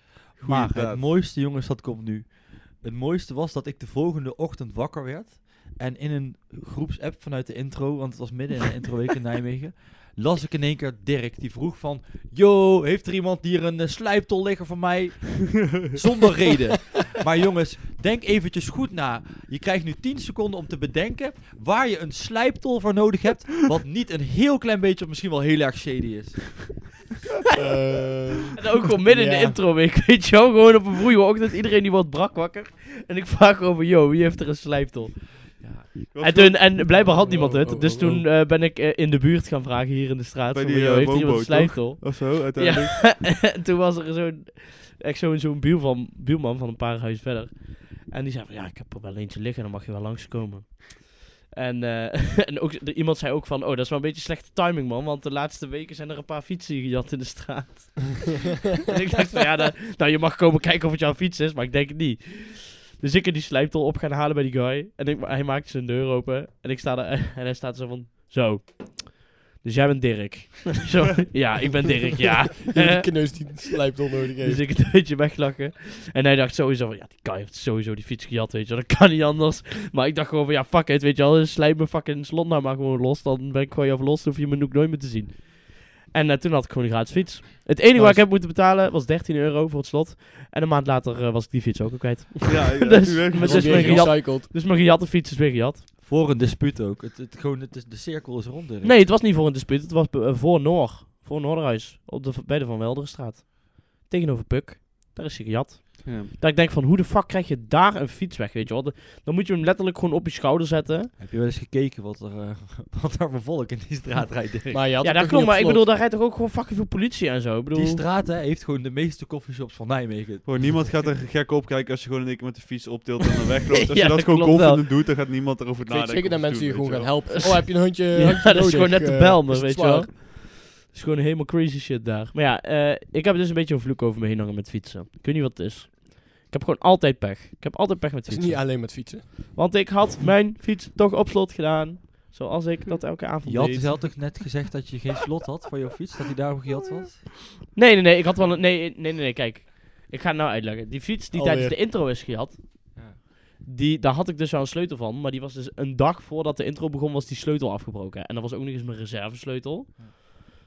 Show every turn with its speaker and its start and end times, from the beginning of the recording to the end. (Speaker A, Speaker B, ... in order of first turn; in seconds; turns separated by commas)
Speaker A: 0.4-1.0, Speaker B: 0.4-26.8, Speaker C: 27.5-29.6, Speaker D: 28.6-35.6, Speaker B: 35.6-36.0, Speaker A: 36.1-37.0, Speaker D: 36.2-73.6, Speaker C: 36.9-38.2, Speaker A: 40.5-43.1, Speaker C: 72.7-74.7, Speaker D: 74.4-95.8, Speaker C: 87.9-88.2, Speaker A: 92.5-94.1, Speaker C: 93.4-94.5, Speaker B: 96.0-99.0, Speaker D: 98.8-111.1, Speaker A: 106.0-106.3, Speaker B: 111.2-114.8, Speaker C: 114.7-115.8, Speaker D: 115.0-118.0, Speaker B: 117.7-120.9, Speaker A: 120.4-127.3, Speaker D: 123.9-124.8, Speaker C: 125.8-130.1, Speaker D: 127.3-144.2, Speaker C: 138.3-139.2, Speaker B: 143.4-147.4, Speaker D: 147.7-153.0, Speaker C: 151.3-151.8, Speaker B: 152.9-153.2, Speaker D: 153.6-160.3